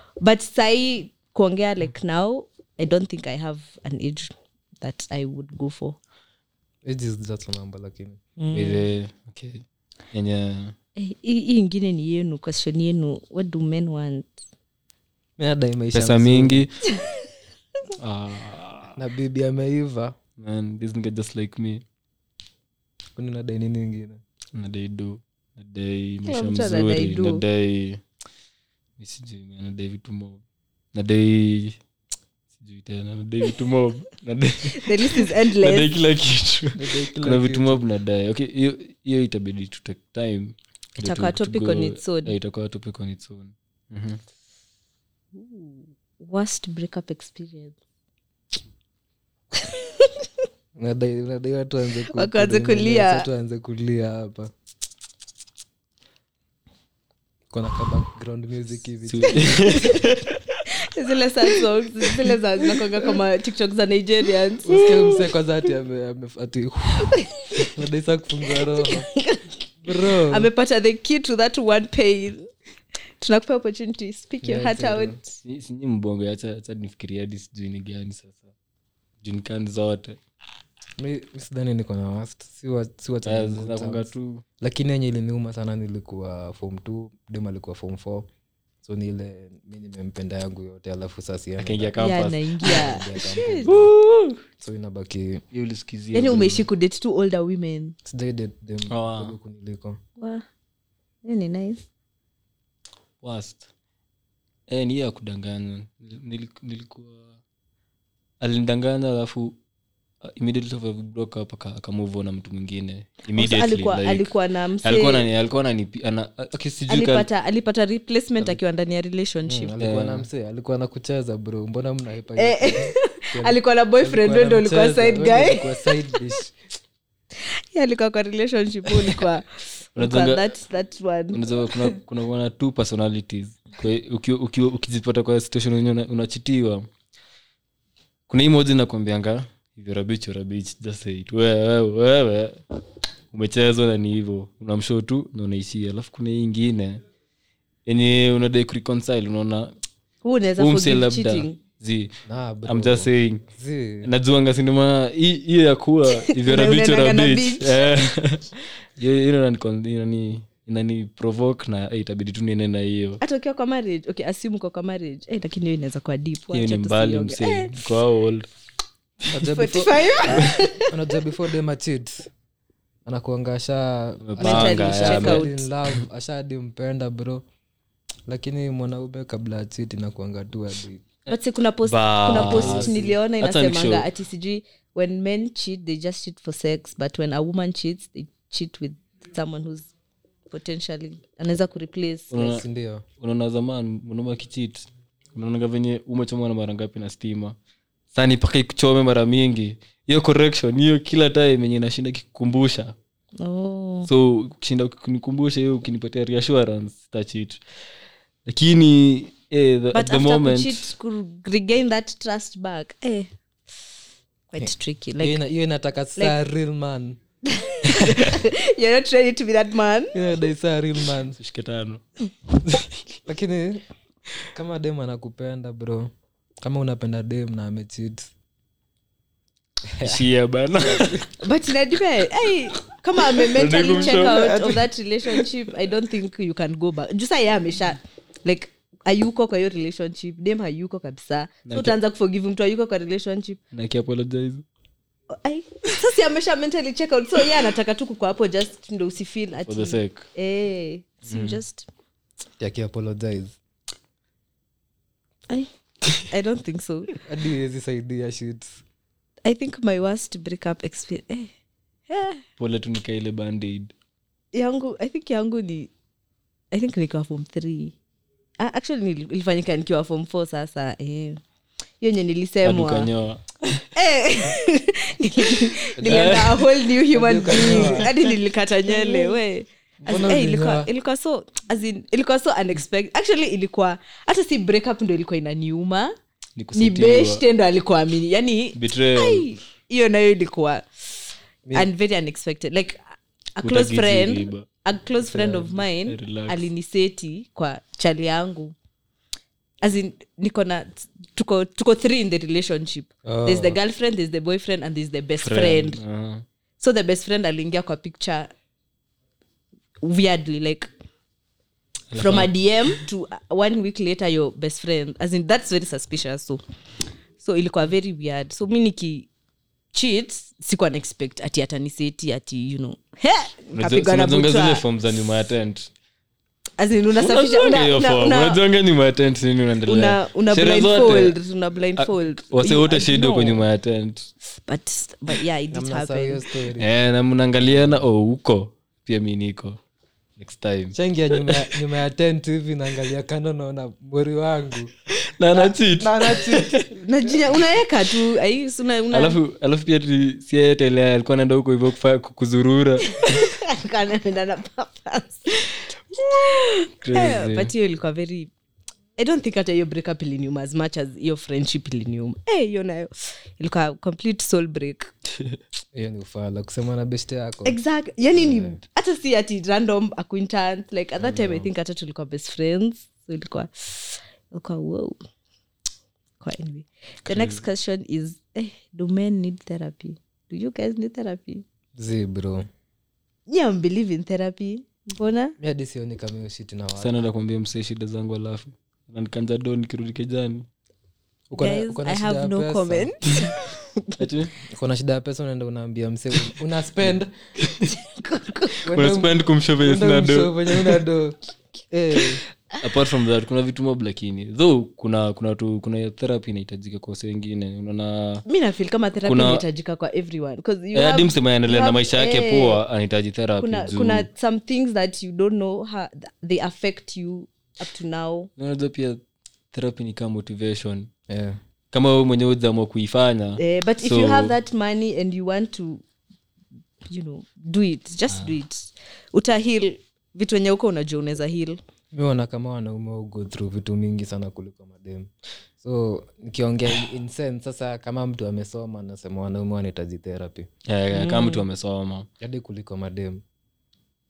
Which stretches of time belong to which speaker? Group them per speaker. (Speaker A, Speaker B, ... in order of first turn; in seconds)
Speaker A: 0.2-6.0, 8.4-8.8, 11.0-14.3, 26.2-27.4, 34.7-35.9, 41.0-42.3, 45.3-47.7, 49.6-50.1, 52.1-53.2, 59.5-60.0, 60.7-64.8, 68.6-69.6, 70.3-72.5, 73.2-75.3, 92.0-93.7, 96.1-97.9, 100.2-100.4, 101.2-101.8, 113.3-115.2, 116.9-119.7, 122.4-125.9, 127.7-131.9, 150.2-151.6, 156.2-157.8, 163.2-167.8, 169.5-170.9, 174.4-175.6, 181.3-189.9, 190.5-192.4, 203.4-204.1, 209.9-213.3, 214.5-215.4, 217.5-220.2, 231.4-243.6, 245.3-251.9, 256.2-257.1, 259.4-261.5, 262.1-262.4, 264.5-265.9, 266.7-267.9, 268.6-271.4, 272.0-273.1, 273.9-286.1, 286.7-290.8, 291.7-293.0, 293.6-298.7, 299.8-306.0, 306.8-308.5, 310.0-310.9, 312.1-316.6, 317.4-319.3, 319.9-324.8, 326.8-328.6, 329.9-333.6, 334.6-336.4, 346.9-349.4, 353.1-355.7, 356.3-358.5, 359.2-365.1, 367.6-375.2, 376.4-381.6, 383.5-385.6, 391.6-394.2, 397.9-398.8, 408.5-412.8, 413.6-418.5, 423.6-426.0, 427.1-431.8, 441.1-441.6
Speaker B: 6.8-8.2, 15.4-16.6, 18.9-20.1, 23.1-24.2, 36.7-37.8, 50.8-54.5, 57.5-59.9, 64.7-69.1, 69.8-70.5, 74.4-75.2, 81.0-88.3, 88.8-93.9, 94.6-95.4, 98.0-100.0, 119.5-126.5, 152.2-154.1, 169.3-170.1, 170.8-172.3, 173.0-177.4, 178.3-181.0, 182.3-183.2, 192.4-193.0, 215.2-217.2, 220.1-221.4, 223.2-223.8, 224.5-226.1, 226.6-228.3, 229.9-230.2, 230.8-231.2, 233.8-234.8, 252.6-253.6, 257.2-258.8, 276.0-276.4, 277.1-278.1, 280.0-280.9, 295.2-295.8, 303.2-303.8, 335.7-336.9, 340.9-344.9, 345.5-346.8, 365.9-367.8, 368.4-368.8, 371.3-371.6, 381.9-382.6, 385.6-387.2, 391.5-393.1, 394.7-397.3, 398.8-401.4, 401.9-402.4, 421.3-421.6, 432.1-440.7, 442.4-443.4
Speaker C: 8.5-10.7, 15.9-16.7, 18.0-19.0, 20.4-21.8, 24.5-28.0, 29.0-30.4, 30.9-31.8, 32.6-44.2, 59.1-60.6, 75.4-78.5, 79.2-80.2, 83.2-84.4, 91.6-93.0, 93.7-94.4, 95.5-96.7, 98.9-99.3, 103.2-103.7, 104.7-107.2, 108.4-109.5, 110.2-117.3, 119.8-120.2, 129.9-130.5, 131.3-136.9, 138.3-142.6, 143.3-147.0, 147.8-149.7, 150.6-152.1, 152.7-153.4, 154.0-163.2, 166.5-168.5, 174.2-175.9, 181.8-184.1, 192.3-192.6, 193.2-197.6, 198.1-202.9, 204.1-207.6, 208.4-210.9, 221.4-222.0, 230.0-231.2, 233.4-234.8, 241.7-241.9, 243.7-244.6, 249.7-250.3, 251.3-251.6, 262.6-263.9, 272.6-273.9, 276.0-276.6, 286.6-287.4, 288.8-289.5, 293.6-294.6, 296.0-296.7, 305.4-306.4, 312.1-313.0, 323.7-325.9, 327.2-331.4, 332.0-334.3, 336.8-339.8, 340.4-341.7, 345.1-346.9, 349.1-353.2, 356.3-357.7, 377.3-377.6, 387.0-390.6, 394.2-394.5, 397.1-397.9, 398.9-401.0, 402.8-408.4, 409.2-409.6, 410.9-414.3, 418.6-421.1, 421.9-424.5, 440.9-442.3